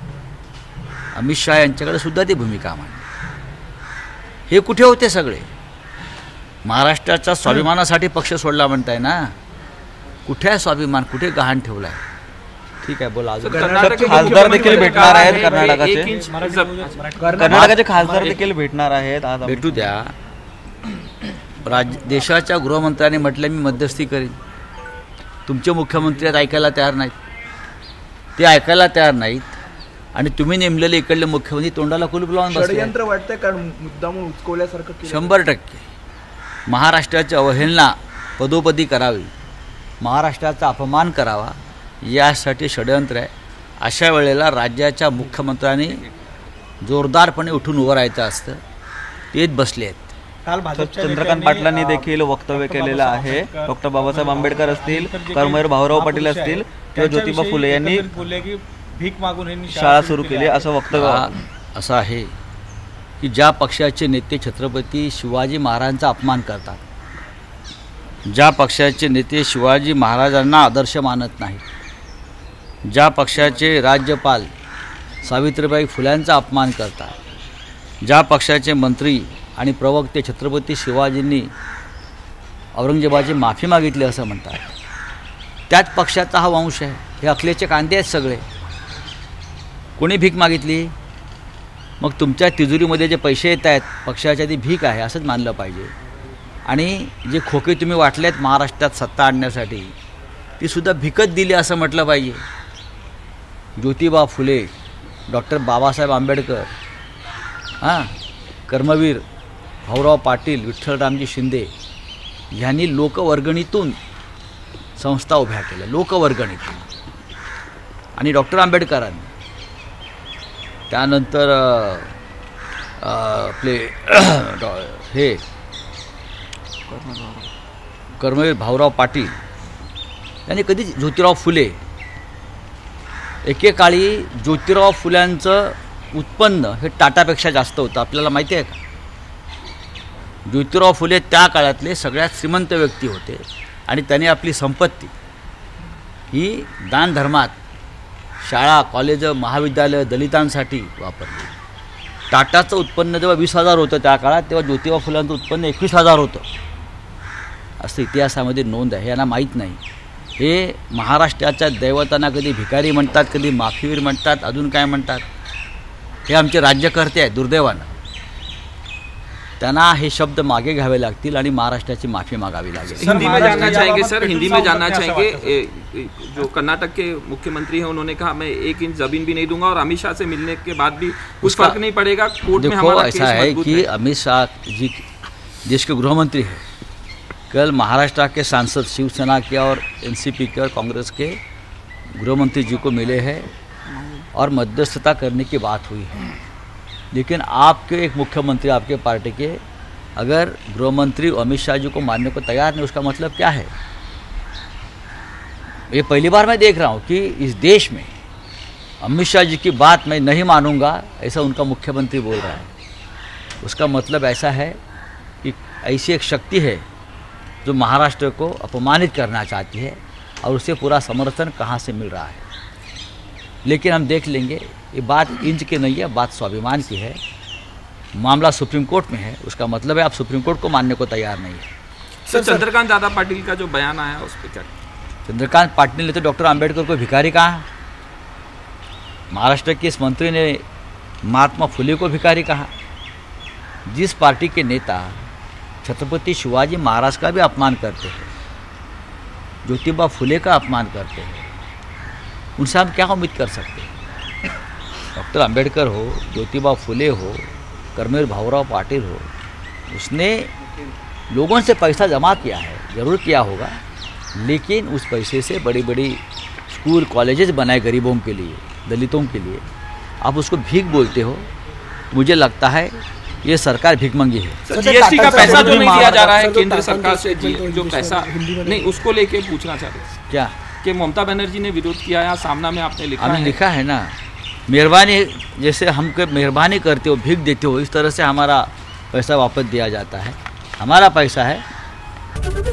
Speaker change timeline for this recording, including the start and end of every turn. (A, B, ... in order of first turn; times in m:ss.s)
0:01.1-0:03.0 A
0:04.5-0:05.5 A
0:06.6-0:09.3 A
0:10.2-0:12.0 A
0:12.8-0:14.8 A
0:13.4-0:17.0 B
0:13.5-0:15.4 C
0:13.7-0:16.1 D
0:14.7-0:17.7 E
0:17.2-0:18.3 C
0:17.4-0:19.9 D
0:17.5-0:17.9 A
0:19.4-0:20.1 A
0:21.6-0:24.4 A
0:25.5-0:27.1 A
0:28.4-0:29.6 A
0:30.1-0:32.9 A
0:32.5-0:35.4 C
0:35.0-0:35.8 A
0:36.7-0:39.3 A
0:40.0-0:46.0 A
0:46.8-0:48.6 A
0:49.3-0:50.1 A
0:50.4-1:00.7 E
0:50.8-0:58.1 D
0:59.7-1:01.3 D
1:00.9-1:02.3 A
1:03.2-1:06.8 A
1:08.3-1:11.6 A
1:12.9-1:14.5 A
1:15.2-1:17.1 A
1:18.0-1:21.5 A
1:22.7-1:24.7 A
1:25.7-1:28.4 A
1:30.0-1:30.9 A
1:32.0-1:35.9 A
1:36.7-1:39.9 A
1:40.6-1:42.4 A
1:43.8-1:44.7 A
1:45.3-1:46.7 A
1:47.8-1:48.1 A
1:48.7-1:49.2 A
1:49.9-1:51.7 A
1:52.5-1:54.0 A
1:55.0-1:56.9 A
1:58.2-1:59.3 A
2:00.9-2:02.2 A
2:03.0-2:05.4 A
2:06.9-2:07.5 B
2:08.2-2:09.4 A
2:10.5-2:11.8 A
2:13.4-2:18.8 A
2:20.4-2:25.1 A
2:26.3-2:27.6 A
2:28.4-2:31.5 A
2:32.3-2:36.4 A
2:37.8-2:39.8 A
2:40.4-2:45.2 A
2:46.3-2:47.9 A
2:49.6-2:53.7 A
2:53.0-3:03.9 B
2:53.0-2:55.6 E
3:01.4-3:01.8 A
3:02.5-3:05.0 A
3:05.6-3:06.6 A
3:07.5-3:11.4 A
3:12.2-3:13.5 A
3:14.3-3:16.3 A
3:17.1-3:19.6 A
3:20.2-3:23.7 A
3:25.9-3:28.1 A
3:29.0-3:32.7 A
3:33.6-3:34.8 A
3:35.4-3:36.8 A
3:37.6-3:42.4 A
3:43.6-3:47.2 A
3:48.2-3:51.7 A
3:52.2-3:54.7 B
3:55.3-3:57.6 A
3:59.3-4:00.6 A
4:01.2-4:02.7 A
4:03.9-4:05.3 A
4:05.8-4:08.3 A
4:09.6-4:11.5 A
4:12.6-4:13.9 A
4:15.1-4:19.3 A
4:19.9-4:20.5 A
4:21.3-4:23.8 A
4:24.4-4:29.6 A
4:30.2-4:31.5 A
4:32.1-4:34.6 A
4:34.7-4:40.1 B
4:34.7-4:39.0 C
4:35.2-4:35.9 A
4:40.3-4:40.5 A
4:40.8-4:43.6 B
4:43.2-4:44.1 A
4:44.7-4:51.6 A